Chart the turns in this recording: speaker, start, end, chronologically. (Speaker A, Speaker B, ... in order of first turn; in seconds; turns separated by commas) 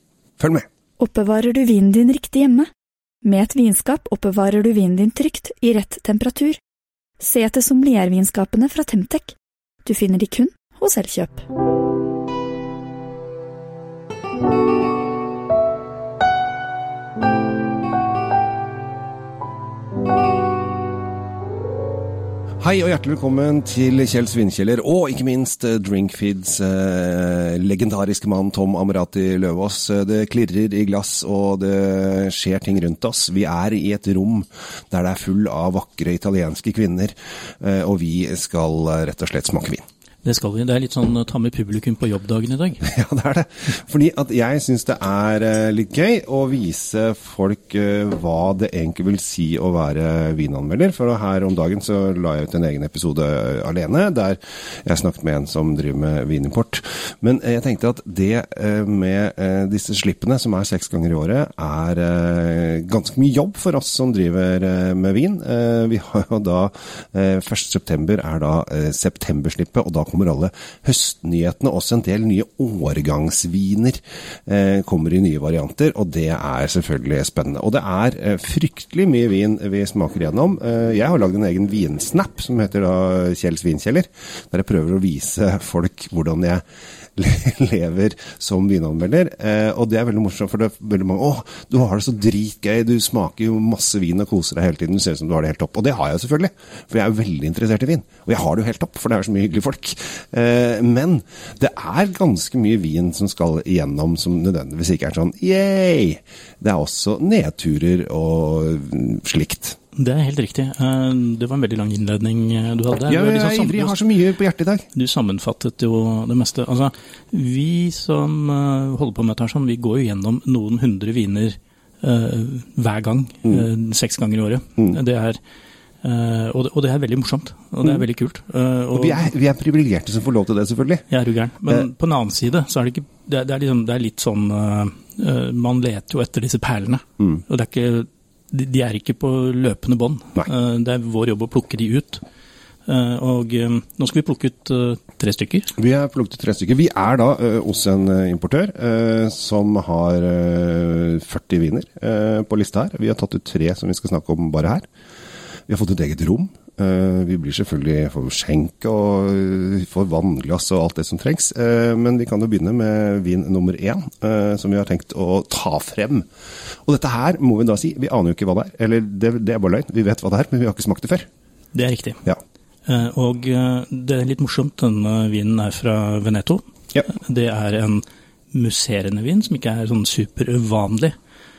Speaker A: 0.4-0.7, Speaker B: 1.0-2.7, Speaker B: 3.2-6.6, Speaker B: 7.2-11.4, Speaker A: 22.6-39.8, Speaker C: 40.2-42.8, Speaker A: 42.8-86.6, Speaker A: 87.2-109.8, Speaker C: 109.9-114.0, Speaker A: 113.1-114.8, Speaker C: 114.9-125.4, Speaker C: 126.0-129.3, Speaker A: 128.9-131.0, Speaker C: 131.1-142.2, Speaker C: 142.8-145.7, Speaker A: 145.8-154.8, Speaker A: 155.7-166.3, Speaker A: 166.8-171.3, Speaker C: 171.7-172.2, Speaker C: 172.8-181.1